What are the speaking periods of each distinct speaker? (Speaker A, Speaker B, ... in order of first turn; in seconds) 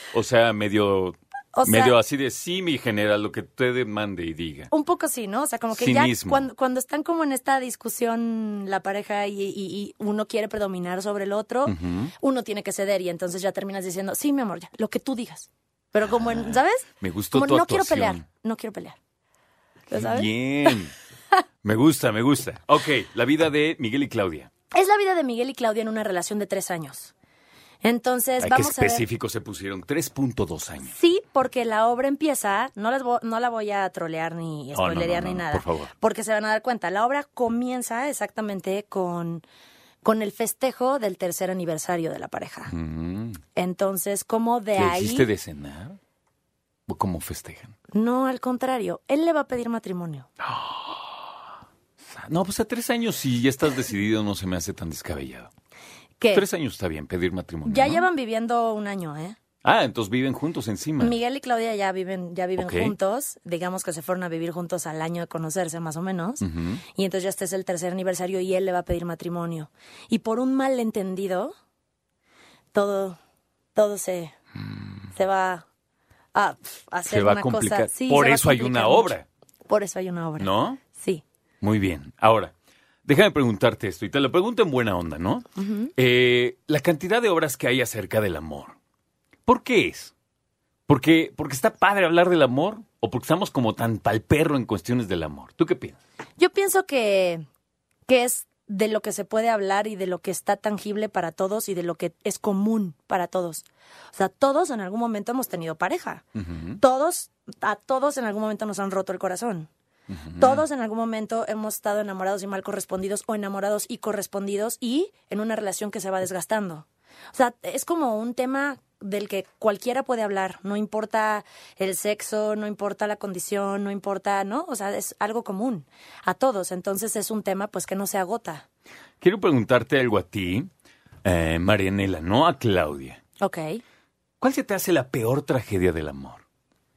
Speaker A: 0.1-4.7, 5.7-6.5, 11.7-12.1, 16.1-18.2, 19.9-20.9, 21.6-24.5, 28.4-30.9, 34.7-35.9, 42.7-43.4, 44.8-46.0, 46.9-47.8, 50.4-51.2, 52.0-55.5, 56.3-58.0, 59.6-61.2, 62.6-62.9, 66.4-66.8, 77.1-79.2, 80.4-80.8, 81.6-82.5, 83.0-88.8, 89.5-90.1, 90.9-96.0, 106.3-106.8, 110.1-110.6, 129.2-130.7, 131.2-133.2, 134.4-136.4
Speaker B: 1.5-1.9, 4.7-19.0, 19.9-20.8, 24.7-27.1, 27.8-29.1, 30.9-39.4, 40.0-42.7, 43.5-45.3, 47.9-50.3, 56.2-56.5, 57.6-59.4, 61.0-71.5, 72.7-73.2, 73.8-74.3, 75.1-75.7, 76.3-79.2, 79.7-81.2, 85.6-85.9, 96.4-97.4, 98.1-106.2, 106.8-109.7, 110.4-128.7, 133.4-133.8